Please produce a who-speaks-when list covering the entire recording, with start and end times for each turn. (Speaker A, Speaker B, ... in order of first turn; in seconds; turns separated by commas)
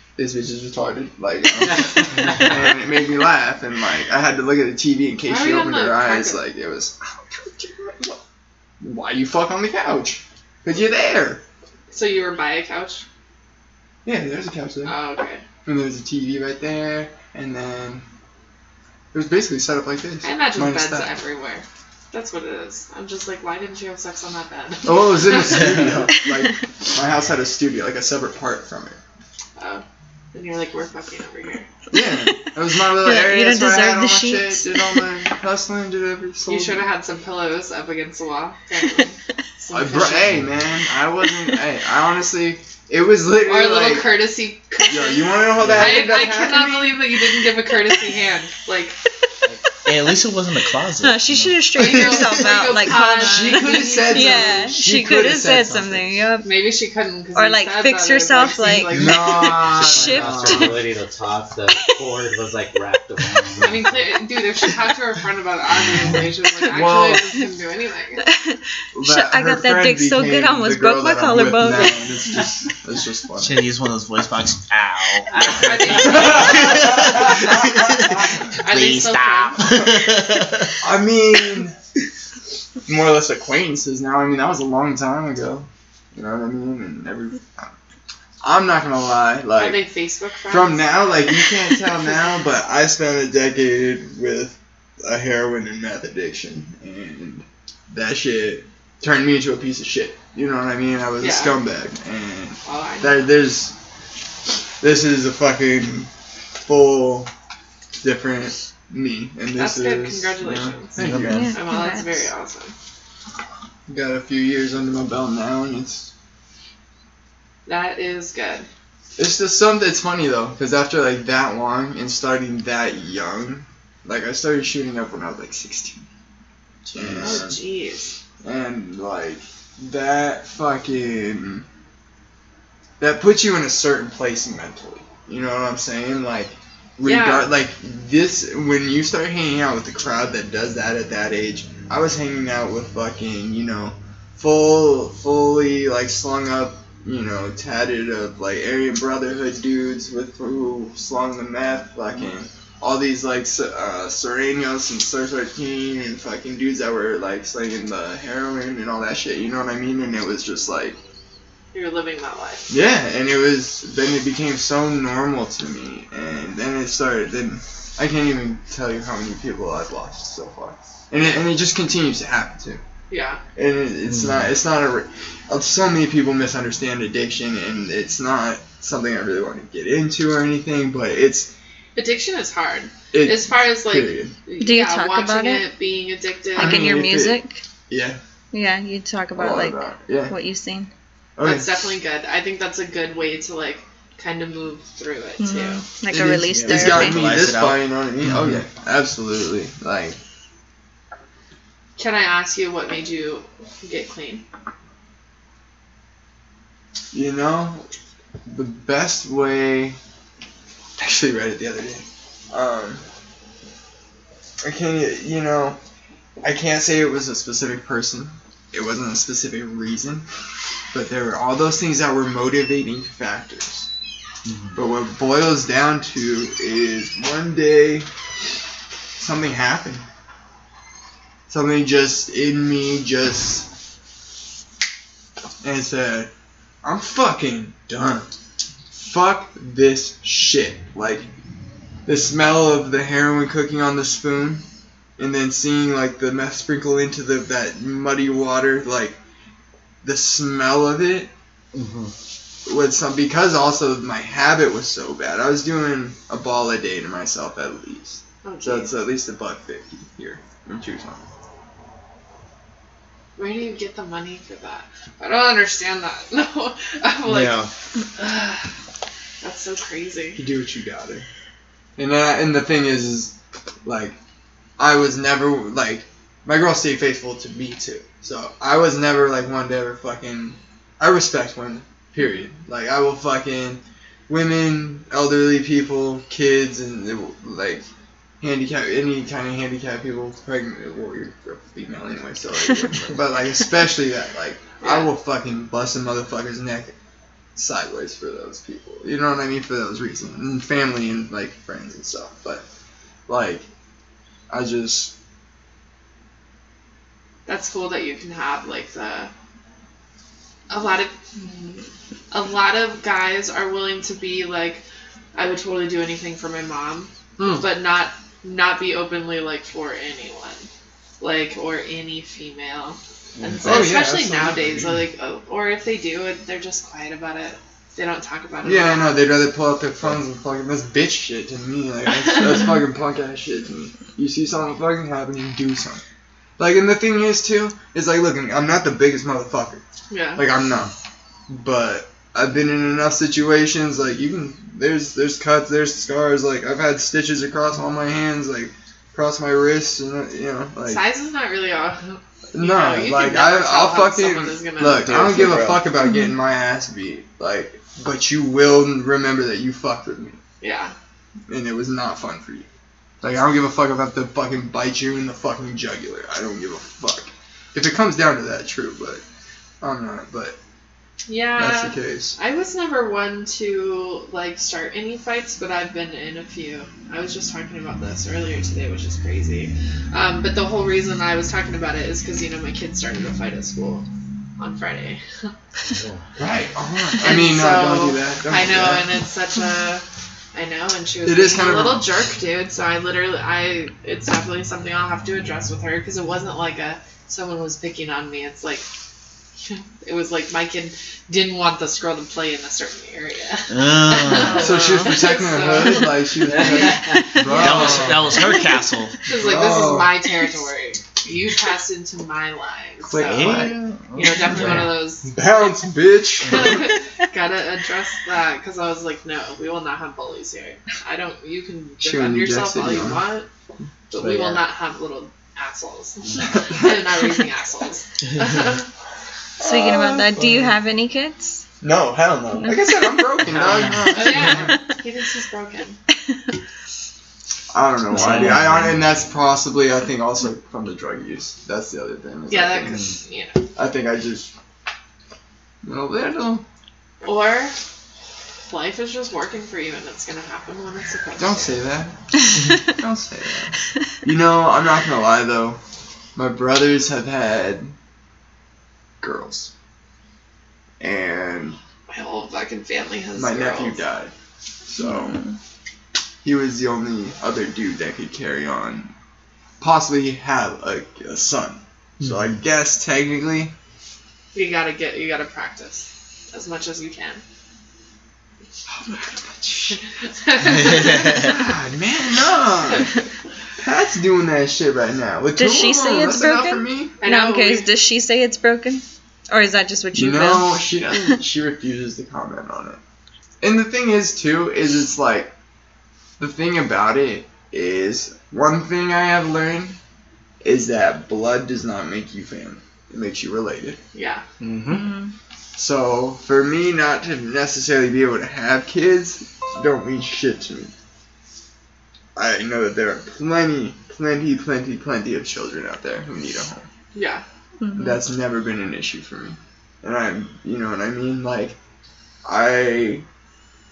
Speaker A: 0.2-8.2, Speaker B: 5.3-6.4, Speaker A: 8.8-11.4, Speaker B: 11.9-13.0, Speaker A: 14.0-14.9, Speaker B: 14.8-15.4, Speaker A: 15.6-18.0, Speaker A: 19.1-21.1, Speaker B: 20.2-25.8, Speaker A: 24.8-29.0, Speaker B: 29.6-31.7, Speaker A: 31.9-36.9, Speaker C: 31.9-35.1, Speaker B: 36.5-40.4, Speaker A: 39.7-44.1, Speaker B: 43.4-49.0, Speaker A: 44.9-47.0, Speaker D: 45.6-46.0, Speaker D: 49.8-52.4, Speaker C: 51.0-56.5, Speaker B: 51.8-54.7, Speaker A: 53.2-56.1, Speaker B: 56.4-59.8, Speaker C: 57.3-60.8, Speaker A: 58.9-60.9, Speaker E: 59.7-64.2, Speaker B: 63.6-68.2, Speaker A: 66.7-67.3, Speaker C: 68.2-72.0, Speaker A: 68.9-73.7, Speaker D: 73.3-80.7, Speaker B: 75.3-77.3, Speaker A: 75.6-78.6, Speaker B: 78.6-79.9, Speaker A: 79.6-80.0, Speaker A: 80.8-81.8, Speaker A: 82.8-87.7, Speaker A: 88.4-89.8, Speaker B: 89.5-91.1, Speaker A: 90.5-103.7, Speaker B: 101.2-101.5, Speaker B: 102.6-103.2, Speaker A: 104.8-107.3, Speaker A: 108.0-111.5, Speaker B: 109.5-111.0, Speaker D: 111.0-111.6, Speaker C: 111.2-112.3, Speaker B: 111.5-112.7, Speaker A: 113.9-116.1, Speaker B: 117.7-118.7, Speaker A: 119.2-126.0, Speaker D: 126.9-127.4, Speaker A: 126.9-127.6, Speaker B: 127.2-128.2, Speaker A: 128.4-131.6, Speaker A: 133.0-161.0, Speaker B: 137.0-137.5, Speaker B: 161.7-162.7, Speaker A: 162.7-172.8, Speaker B: 173.1-173.4, Speaker A: 173.6-181.5, Speaker D: 174.1-174.5, Speaker B: 181.9-187.1, Speaker A: 183.1-184.3, Speaker C: 184.6-185.7, Speaker A: 186.6-187.4, Speaker C: 186.6-187.6, Speaker A: 187.9-188.2, Speaker C: 188.5-190.9, Speaker A: 189.3-190.3, Speaker A: 191.4-191.7, Speaker B: 191.4-195.8, Speaker C: 195.4-197.3, Speaker A: 196.1-200.2, Speaker D: 196.1-198.6, Speaker B: 202.0-204.4, Speaker A: 207.1-207.9, Speaker A: 208.4-210.0, Speaker A: 211.0-213.0, Speaker A: 214.6-215.8, Speaker A: 216.4-220.2, Speaker A: 220.9-223.9, Speaker A: 224.7-228.1, Speaker A: 229.2-230.0, Speaker A: 231.5-233.7, Speaker A: 235.6-236.3, Speaker A: 236.8-238.3, Speaker A: 238.9-241.3, Speaker A: 242.1-244.6, Speaker A: 245.2-249.2, Speaker A: 250.0-251.3, Speaker D: 251.7-252.1, Speaker A: 252.7-261.2, Speaker B: 258.4-258.9, Speaker B: 263.4-267.6, Speaker D: 267.2-267.7, Speaker B: 268.1-268.7, Speaker B: 269.4-270.4, Speaker A: 270.4-271.2, Speaker A: 272.0-274.2, Speaker A: 274.8-287.8, Speaker A: 288.4-296.9, Speaker B: 294.8-295.1, Speaker A: 297.6-302.6, Speaker A: 303.3-303.6, Speaker A: 304.5-305.1, Speaker B: 307.4-309.3, Speaker B: 310.7-311.7, Speaker B: 312.3-314.8, Speaker B: 315.3-320.7, Speaker A: 317.4-317.6, Speaker B: 321.2-329.1, Speaker D: 323.4-323.9, Speaker A: 323.6-324.8, Speaker A: 328.6-336.0, Speaker A: 336.6-339.8, Speaker B: 340.1-340.4, Speaker A: 340.3-340.9, Speaker A: 341.5-351.0, Speaker B: 350.8-355.3, Speaker A: 352.5-360.4, Speaker D: 354.8-355.9, Speaker C: 356.0-356.3, Speaker B: 360.6-360.9, Speaker A: 361.5-362.7, Speaker A: 363.2-369.2, Speaker A: 369.8-370.6, Speaker B: 371.3-385.5, Speaker A: 371.6-372.4, Speaker E: 385.9-386.2, Speaker A: 386.4-389.1, Speaker B: 387.2-398.9, Speaker A: 391.2-392.1, Speaker B: 399.6-415.3, Speaker D: 403.7-404.7, Speaker A: 404.5-408.4, Speaker E: 406.4-407.9, Speaker D: 407.4-409.2, Speaker A: 409.3-410.2, Speaker A: 413.0-413.8, Speaker D: 413.2-414.9, Speaker A: 414.4-416.9, Speaker B: 416.5-423.5, Speaker A: 422.0-423.2, Speaker B: 424.1-428.9, Speaker A: 424.1-424.6, Speaker A: 426.5-426.9, Speaker A: 429.6-430.8, Speaker C: 429.6-431.6, Speaker A: 431.8-434.8, Speaker D: 433.7-434.5, Speaker B: 434.1-436.0, Speaker A: 437.7-443.0, Speaker D: 438.1-438.9, Speaker B: 442.5-443.6, Speaker A: 443.7-444.5, Speaker A: 445.8-446.6, Speaker B: 447.2-447.8, Speaker B: 448.6-451.8, Speaker A: 451.4-455.8, Speaker A: 456.4-457.9, Speaker A: 459.2-459.7, Speaker A: 461.0-461.8, Speaker B: 462.1-464.0, Speaker A: 463.3-464.3, Speaker A: 464.9-465.4, Speaker C: 465.0-465.5, Speaker A: 466.4-469.1, Speaker A: 469.8-473.7, Speaker D: 472.2-472.5, Speaker B: 474.5-477.4, Speaker A: 478.9-480.0, Speaker B: 479.9-481.6, Speaker D: 480.8-481.5, Speaker A: 481.3-483.1, Speaker B: 482.9-483.2, Speaker A: 483.8-487.1, Speaker C: 485.6-490.7, Speaker B: 487.2-487.9, Speaker A: 490.1-493.0, Speaker A: 493.6-495.5, Speaker A: 496.4-500.0, Speaker A: 500.6-504.0, Speaker B: 504.1-504.4, Speaker D: 504.6-505.1, Speaker C: 504.9-505.3, Speaker A: 505.8-510.9, Speaker A: 512.4-516.9, Speaker B: 517.1-517.4, Speaker C: 517.8-518.2, Speaker A: 517.9-521.8, Speaker A: 522.4-523.2